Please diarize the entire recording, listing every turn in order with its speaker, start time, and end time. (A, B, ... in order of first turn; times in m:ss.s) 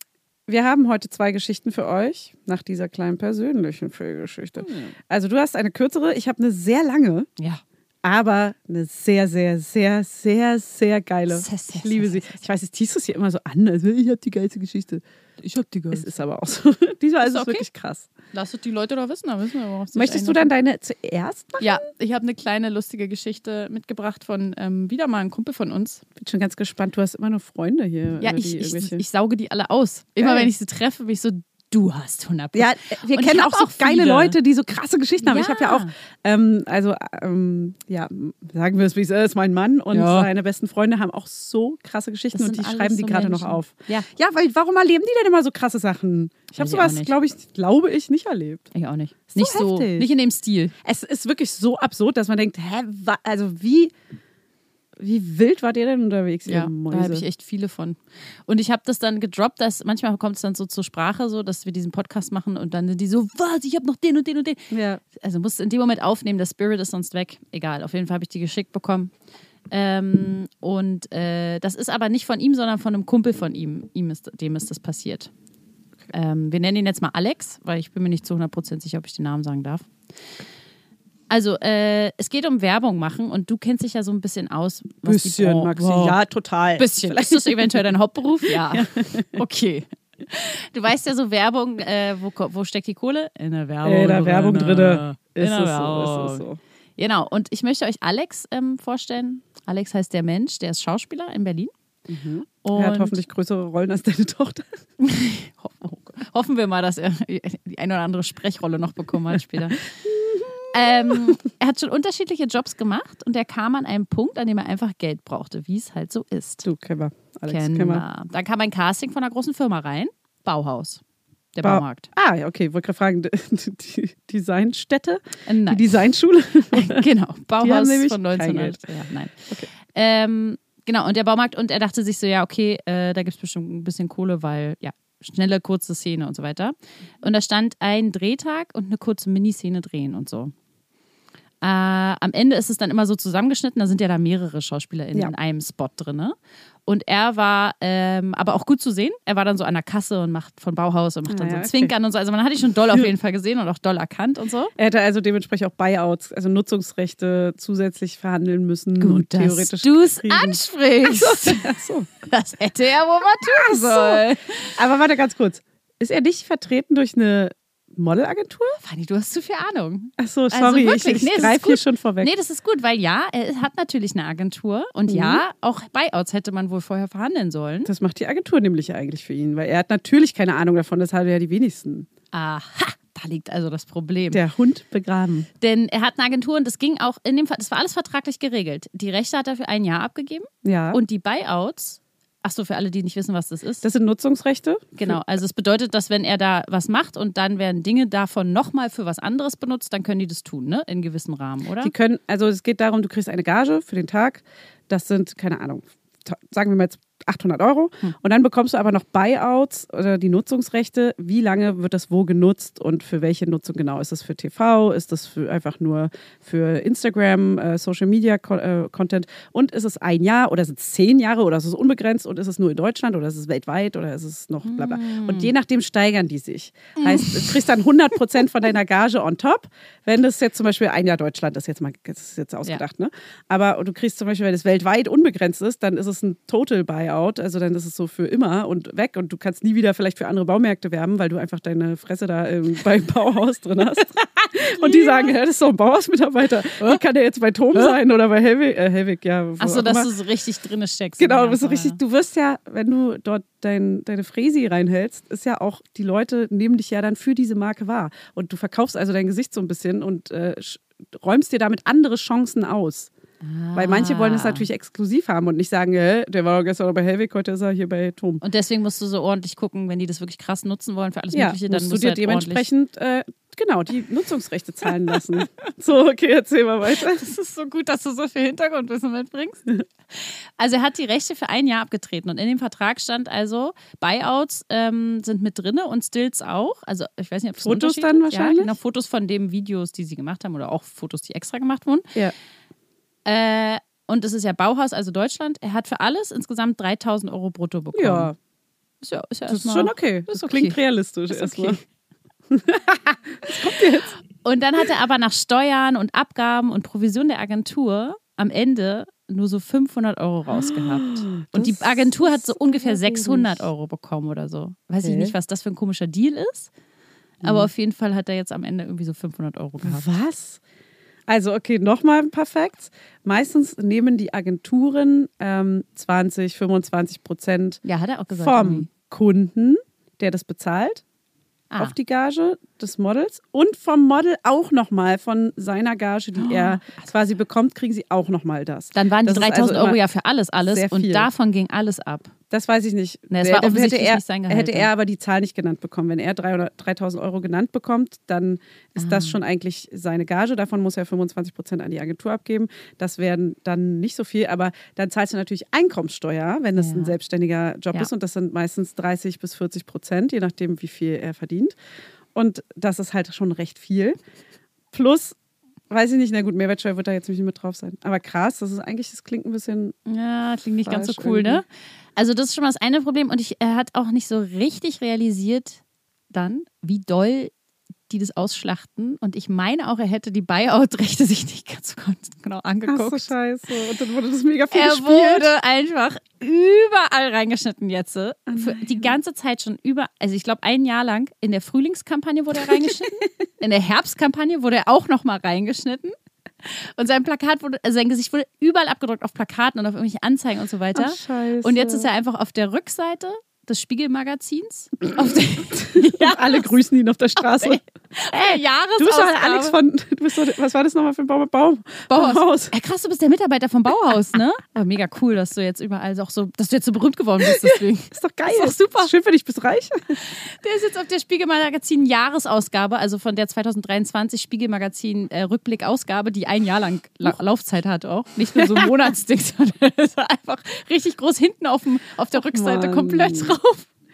0:00.5-0:07.3 A
0:04.6-0:05.0 B
0:08.0-0:15.0 A
0:11.3-0:12.4 B
0:15.4-0:16.1 B
0:15.9-0:18.1 A
0:17.2-0:17.6 B
0:18.3-0:20.5 B
0:19.9-0:21.8 A
0:21.6-0:26.0 B
0:26.2-0:29.0 A
0:28.2-0:34.4 B
0:30.2-0:30.5 A
0:32.5-0:48.7 A
0:35.2-0:35.9 B
0:39.9-0:40.3 B
0:42.3-0:44.1 B
0:46.6-0:47.1 B
0:48.7-0:50.7 B
0:49.3-0:50.1 A
0:50.8-0:53.9 A
0:55.0-0:57.2 A
0:56.4-1:09.1 B
1:04.7-1:05.0 A
1:09.7-1:15.3 B
1:16.1-1:19.9 B
1:21.3-1:26.2 B
1:25.0-1:27.8 A
1:26.8-1:36.4 B
1:28.5-1:29.4 A
1:33.8-1:36.6 A
1:37.0-1:41.7 B
1:42.1-1:44.8 A
1:42.6-1:43.2 B
1:45.0-1:49.9 B
1:50.0-1:51.4 A
1:50.7-1:56.6 B
1:56.6-1:58.0 A
1:57.5-2:01.0 B
2:01.5-2:02.1 B
2:01.6-2:07.0 A
2:05.5-2:06.0 B
2:06.7-2:20.5 B
2:07.6-2:08.8 A
2:21.6-2:26.3 B
2:26.8-2:34.7 B
2:31.3-2:31.9 A
2:34.8-2:42.1 A
2:39.0-2:44.8 B
2:43.4-2:48.8 A
2:48.8-2:57.9 B
2:50.2-2:52.3 A
2:55.1-2:55.4 A
2:57.8-3:02.1 A
3:02.3-3:04.4 B
3:04.3-3:05.5 A
3:05.6-3:13.8 B
3:10.6-3:11.0 A
3:13.8-3:15.2 A
3:15.0-3:21.9 B
3:21.8-4:10.1 A
3:44.6-3:45.5 B
3:47.0-3:47.6 B
4:04.6-4:05.3 B
4:09.6-4:12.0 B
4:11.2-4:23.1 A
4:23.4-4:24.7 B
4:23.7-4:28.4 A
4:28.4-4:32.6 B
4:31.3-4:37.2 A
4:36.9-4:52.1 B
4:47.6-4:48.7 A
4:53.2-4:58.3 B
4:57.9-4:58.3 A
4:59.0-5:00.8 B
4:59.5-5:01.8 A
5:01.3-5:01.8 B
5:02.5-5:04.1 A
5:04.4-5:16.7 B
5:10.5-5:13.7 A
5:15.0-5:15.3 A
5:17.4-5:17.7 A
5:17.4-5:20.1 B
5:19.8-5:20.6 A
5:21.3-5:31.0 A
5:27.8-5:28.9 B
5:31.8-5:40.0 A
5:36.4-5:37.0 B
5:38.9-5:42.3 B
5:40.6-5:41.3 A
5:42.5-6:01.7 A
5:43.3-5:44.9 B
5:49.0-5:49.4 B
5:56.8-5:57.1 B
6:02.3-6:04.2 A
6:04.9-6:05.4 A
6:05.9-6:10.0 A
6:10.0-6:17.5 B
6:10.8-6:11.6 A
6:18.1-6:23.3 B
6:22.9-6:25.5 A
6:24.7-6:46.7 B
6:28.5-6:29.1 A
6:32.7-6:32.9 A
6:40.9-6:42.1 A
6:45.2-6:47.8 A
6:47.4-6:49.8 B
6:48.3-6:52.7 A
6:52.1-6:59.1 B
6:57.4-7:00.2 A
7:00.2-7:13.9 B
7:08.5-7:09.1 A
7:12.3-7:13.6 A